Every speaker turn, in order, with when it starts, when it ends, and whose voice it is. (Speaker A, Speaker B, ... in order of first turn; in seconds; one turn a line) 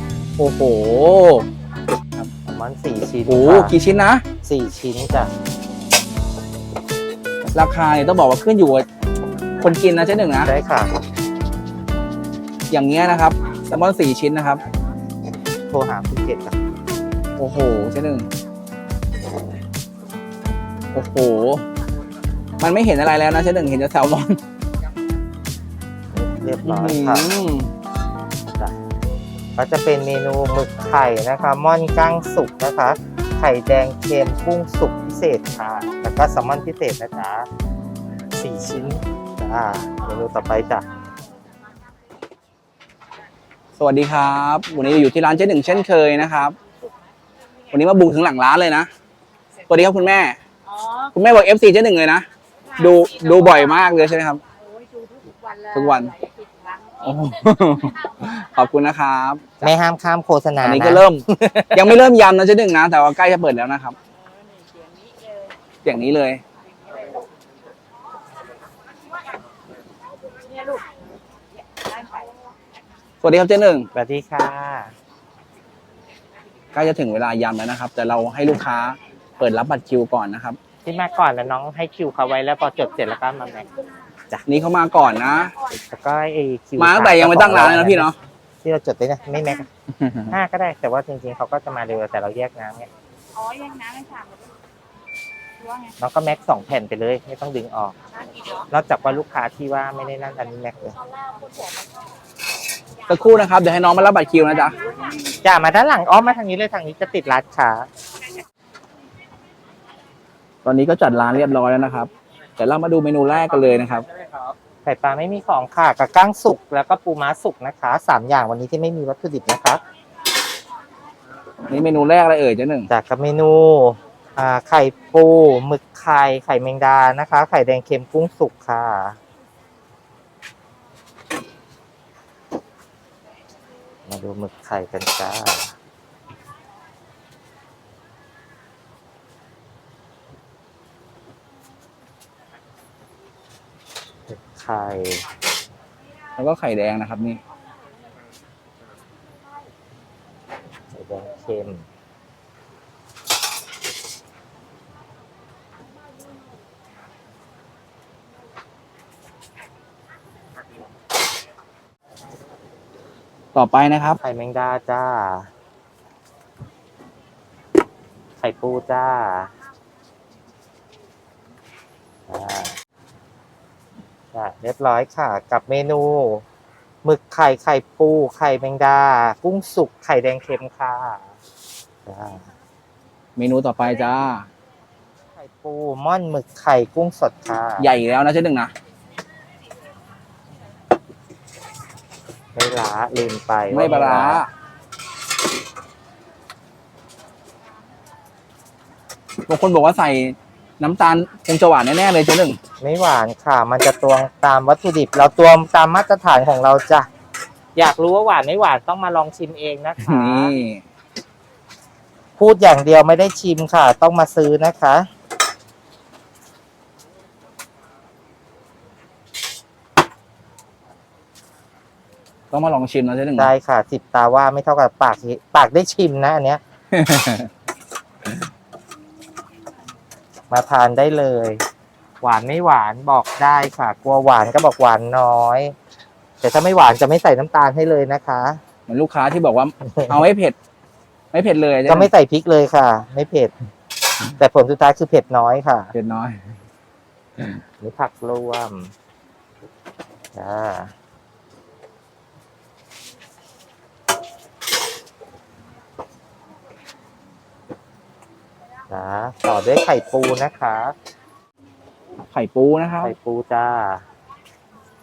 Speaker A: 0.4-1.5
Speaker B: 2.5-3.8
Speaker A: 3.3-4.2
Speaker B: 4.4-5.3
Speaker A: 7.5-8.9
Speaker A: 9.6-10.5
Speaker B: 10.4-10.9
Speaker A: 12.7-14.6
Speaker B: 15.7-16.6
Speaker A: 17.4-18.3
Speaker A: 20.9-21.6
Speaker A: 22.6-24.4
Speaker B: 26.1-27.3
Speaker A: 26.6-27.7
Speaker B: 29.6-37.5
Speaker B: 38.3-40.8
Speaker A: 43.8-46.6
Speaker A: 47.7-48.9
Speaker A: 49.7-50.4
Speaker C: 50.6-51.1
Speaker A: 51.1-54.4
Speaker C: 52.9-53.7
Speaker C: 54.5-57.0
Speaker A: 55.7-56.1
Speaker A: 57.0-59.4
Speaker B: 59.6-61.9
Speaker A: 60.6-64.0
Speaker C: 64.2-65.5
Speaker A: 65.8-66.4
Speaker C: 70.5-70.8
Speaker C: 71.5-72.3
Speaker A: 73.2-73.9
Speaker B: 73.9-74.9
Speaker A: 76.7-80.6
Speaker B: 80.8-83.7
Speaker A: 84.5-85.5
Speaker B: 85.9-89.7
Speaker A: 86.8-88.1
Speaker A: 89.9-90.3
Speaker B: 90.3-92.9
Speaker C: 93.3-94.5
Speaker C: 95.6-95.9
Speaker B: 96.0-97.9
Speaker C: 98.1-98.7
Speaker B: 98.7-100.9
Speaker C: 101.1-101.9
Speaker A: 103.1-104.8
Speaker C: 104.7-105.4
Speaker B: 105.4-107.9
Speaker A: 110.6-114.1
Speaker B: 114.8-119.8
Speaker A: 121.7-122.9
Speaker B: 122.9-129.2
Speaker B: 134.1-135.7
Speaker B: 144.3-145.2
Speaker A: 146.4-147.4
Speaker B: 150.9-151.8
Speaker A: 163.5-164.2
Speaker B: 164.2-165.5
Speaker B: 168.4-169.5
Speaker B: 172.3-172.8
Speaker B: 174.3-176.4
Speaker B: 177.0-181.4
Speaker B: 182.1-182.5
Speaker A: 183.4-184.5
Speaker B: 185.4-187.9
Speaker A: 187.8-188.7
Speaker B: 192.6-194.4
Speaker A: 193.7-194.5
Speaker A: 199.5-202.6
Speaker B: 202.8-207.1
Speaker B: 207.8-210.6
Speaker A: 210.0-210.8
Speaker B: 212.4-215.1
Speaker A: 222.5-223.5
Speaker B: 223.3-226.6
Speaker A: 226.9-227.5
Speaker B: 230.5-231.7
Speaker B: 232.2-235.8
Speaker B: 236.4-238.6
Speaker A: 238.9-240.6
Speaker B: 239.9-240.2
Speaker A: 241.3-242.1
Speaker B: 241.9-243.5
Speaker B: 244.4-245.9
Speaker A: 245.9-246.4
Speaker B: 247.8-248.9
Speaker B: 250.3-250.9
Speaker B: 258.9-260.9
Speaker A: 262.3-263.1
Speaker B: 263.0-264.0